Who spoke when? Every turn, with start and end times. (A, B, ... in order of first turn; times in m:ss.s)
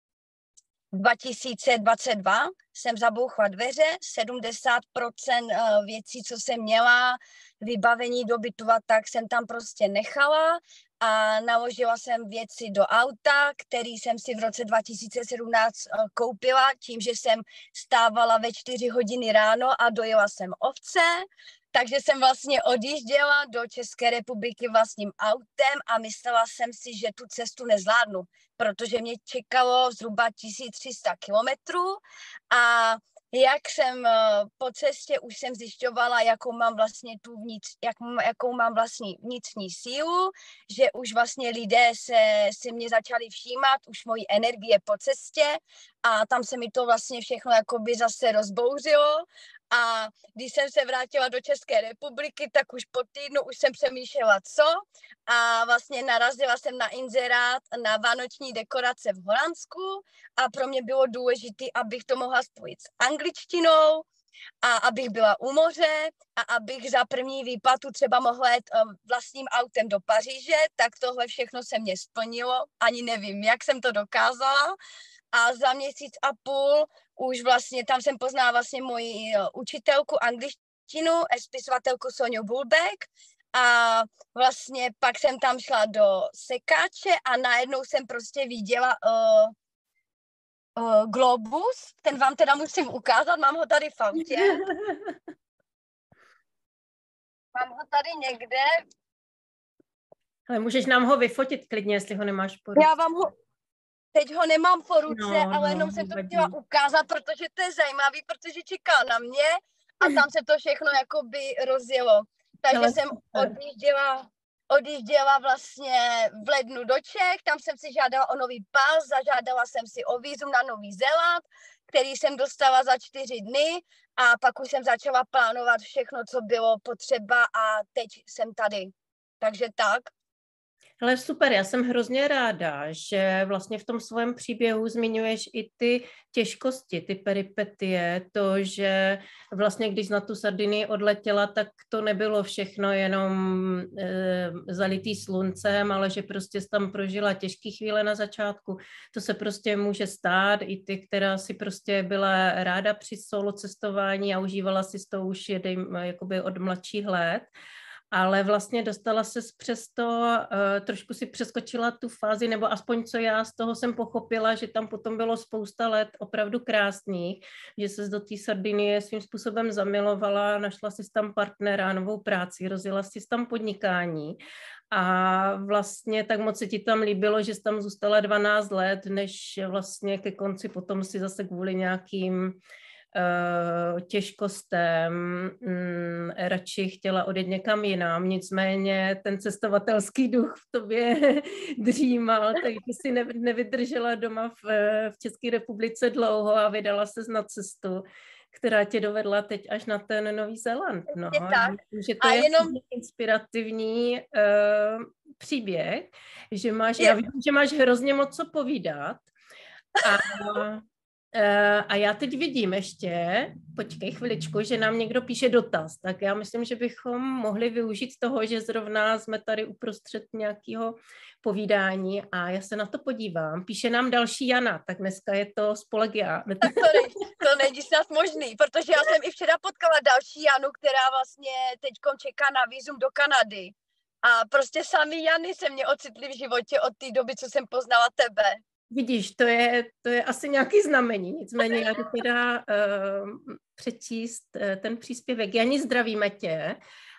0:00.9-1:04.0 A
1:04.6-1:14.8 A
1:15.3-1:29.5 A
1:30.8-1:34.6 A
1:34.2-1:35.2 B
1:37.5-1:38.8 A
1:40.5-1:42.9 B
1:42.8-1:43.3 A
1:44.1-2:10.1 A
1:45.1-1:46.5 B
1:52.7-1:53.5 B
2:11.0-2:37.5 B
2:38.1-2:54.4 B
2:54.9-3:02.6 B
3:03.1-3:29.3 B
3:21.1-3:22.8 A
3:30.0-3:47.0 B
3:30.0-3:30.4 A
3:46.6-3:58.6 A
3:58.9-4:06.8 B